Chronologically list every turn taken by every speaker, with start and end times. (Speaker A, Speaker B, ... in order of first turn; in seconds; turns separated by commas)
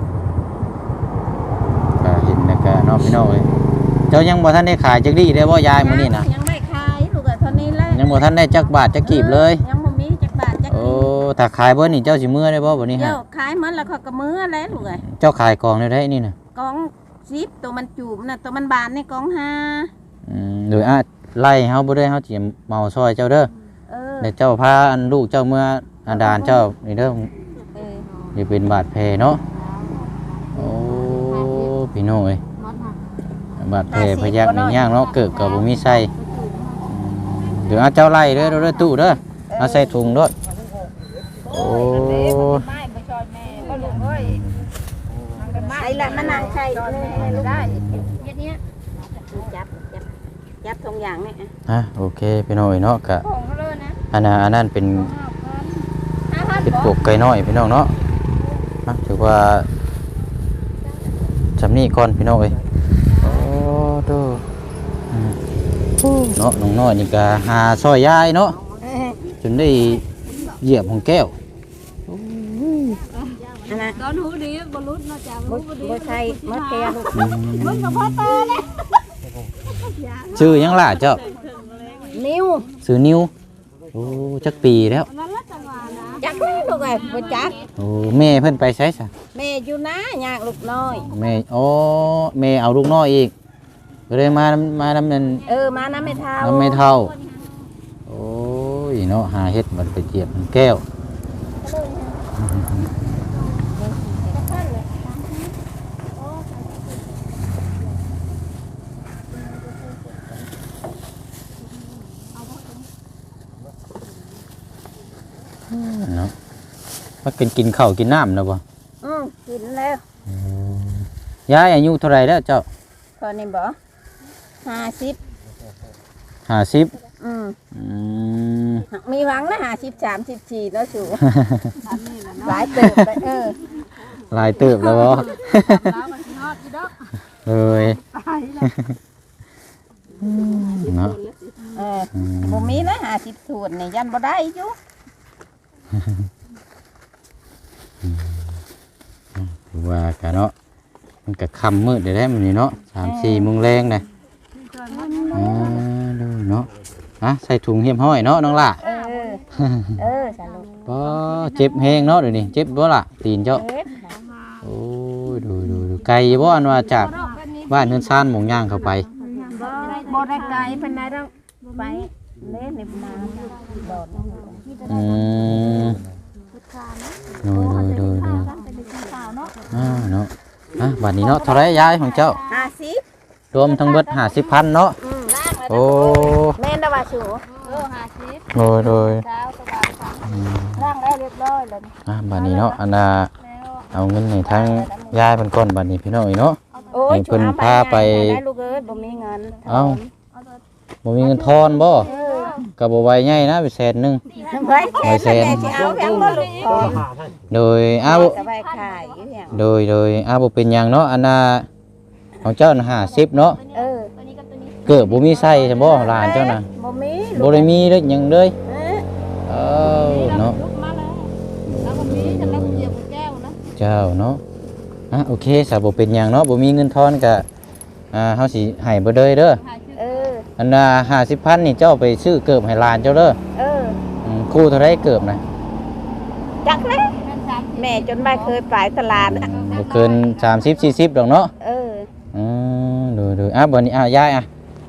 Speaker A: 2.0-3.5, Speaker A: 4.1-6.3, Speaker B: 5.8-11.1, Speaker A: 7.5-9.6, Speaker A: 10.7-13.2, Speaker B: 12.9-15.1, Speaker A: 15.0-16.4, Speaker B: 16.5-19.9, Speaker A: 20.3-23.5, Speaker B: 23.9-24.3, Speaker A: 24.2-27.3, Speaker C: 27.8-28.3, Speaker A: 28.4-29.4, Speaker C: 29.5-30.5, Speaker A: 30.6-32.4, Speaker C: 31.1-31.7, Speaker C: 32.6-33.0, Speaker A: 33.6-36.1, Speaker B: 33.9-34.9, Speaker C: 35.0-36.9, Speaker A: 36.9-40.3, Speaker B: 39.5-40.0, Speaker A: 41.5-42.7, Speaker B: 41.5-44.0, Speaker C: 43.5-44.4, Speaker A: 43.9-44.7, Speaker C: 45.4-46.6, Speaker B: 45.6-48.6, Speaker A: 47.2-48.2, Speaker B: 49.2-50.1, Speaker B: 50.6-51.5, Speaker A: 51.7-53.3, Speaker C: 53.3-54.0, Speaker A: 54.1-55.1, Speaker C: 55.2-55.8, Speaker B: 56.3-57.0, Speaker A: 56.6-58.0, Speaker A: 58.9-59.7, Speaker A: 61.6-62.6, Speaker A: 63.2-64.5, Speaker A: 65.1-65.4, Speaker A: 66.0-68.6, Speaker B: 68.8-69.2, Speaker A: 69.4-71.4, Speaker A: 72.1-73.0, Speaker C: 73.2-78.8, Speaker B: 73.7-74.1, Speaker B: 75.5-77.3, Speaker A: 77.1-78.4, Speaker B: 78.3-78.9, Speaker C: 79.8-82.1, Speaker A: 80.3-81.2, Speaker B: 82.1-82.7, Speaker A: 82.8-83.3, Speaker A: 83.9-85.1, Speaker C: 85.1-87.5, Speaker B: 86.2-87.7, Speaker A: 87.8-89.1, Speaker B: 89.3-91.1, Speaker A: 91.1-93.3, Speaker A: 94.1-95.5, Speaker B: 95.4-96.9, Speaker A: 96.4-97.2, Speaker C: 97.2-97.6, Speaker A: 98.1-100.8, Speaker B: 101.6-102.2, Speaker A: 102.4-102.9, Speaker B: 103.7-105.5, Speaker A: 115.7-116.3, Speaker A: 117.2-118.6, Speaker B: 119.0-120.0, Speaker A: 120.3-122.7, Speaker B: 123.2-123.8, Speaker B: 124.6-125.2, Speaker A: 126.5-127.0, Speaker B: 127.2-127.6, Speaker A: 127.7-128.9, Speaker B: 128.9-131.3, Speaker A: 131.3-131.8, Speaker C: 131.8-132.9, Speaker B: 132.4-133.6, Speaker A: 132.7-133.1, Speaker A: 134.2-136.0, Speaker C: 134.7-137.0, Speaker A: 137.4-138.0, Speaker C: 138.1-138.7, Speaker A: 138.6-139.0, Speaker A: 140.2-141.2, Speaker B: 141.7-144.8, Speaker A: 142.1-142.9, Speaker A: 145.9-146.2, Speaker A: 148.0-148.6, Speaker A: 149.4-150.5, Speaker A: 151.3-154.1, Speaker B: 153.0-153.5, Speaker C: 154.7-155.8, Speaker B: 154.9-155.8, Speaker A: 155.3-156.7, Speaker A: 157.2-158.8, Speaker B: 158.8-159.4, Speaker C: 158.9-159.4, Speaker A: 159.5-160.0, Speaker B: 160.0-160.7, Speaker A: 160.8-163.6, Speaker C: 161.2-161.6, Speaker B: 163.5-164.1, Speaker A: 164.6-167.1, Speaker C: 166.9-167.9, Speaker A: 167.7-169.1, Speaker C: 169.0-170.7, Speaker B: 169.5-174.9, Speaker C: 174.6-175.7, Speaker A: 174.9-176.0, Speaker C: 176.5-179.9, Speaker A: 177.4-178.5, Speaker B: 177.6-179.5, Speaker A: 179.7-182.4, Speaker C: 181.1-182.4, Speaker B: 182.5-183.0, Speaker A: 183.5-185.0, Speaker C: 183.8-184.2, Speaker B: 185.0-187.5, Speaker A: 185.7-186.6, Speaker C: 187.5-188.5, Speaker A: 188.5-189.3, Speaker C: 189.1-190.4, Speaker A: 190.2-190.9, Speaker B: 190.8-191.9, Speaker A: 192.1-193.3, Speaker C: 192.4-192.8, Speaker A: 193.9-198.4, Speaker B: 194.4-195.2, Speaker C: 196.8-197.0, Speaker B: 196.9-200.1, Speaker A: 199.7-200.0, Speaker A: 201.1-202.1, Speaker C: 201.5-202.7, Speaker B: 201.9-202.6, Speaker A: 202.8-204.2, Speaker B: 204.3-207.0, Speaker A: 205.0-205.9, Speaker C: 206.1-206.9, Speaker A: 206.9-208.4, Speaker B: 208.0-209.6, Speaker A: 209.5-211.7, Speaker A: 212.4-213.6, Speaker B: 213.7-214.1, Speaker C: 214.3-215.7, Speaker A: 214.9-216.7, Speaker B: 215.8-217.9, Speaker A: 217.4-218.6, Speaker B: 218.7-219.1, Speaker A: 219.5-220.6, Speaker C: 220.0-221.3, Speaker A: 221.7-223.0, Speaker C: 221.8-223.6, Speaker A: 223.8-224.4, Speaker A: 225.1-227.5, Speaker A: 228.1-229.6, Speaker C: 229.6-230.1, Speaker B: 229.9-230.5, Speaker A: 230.6-233.4, Speaker B: 233.5-234.0, Speaker A: 234.2-235.4, Speaker B: 236.6-237.2, Speaker C: 237.2-238.6, Speaker B: 237.7-239.5, Speaker A: 239.2-241.5, Speaker C: 239.5-240.5, Speaker B: 241.6-242.1, Speaker A: 242.3-244.5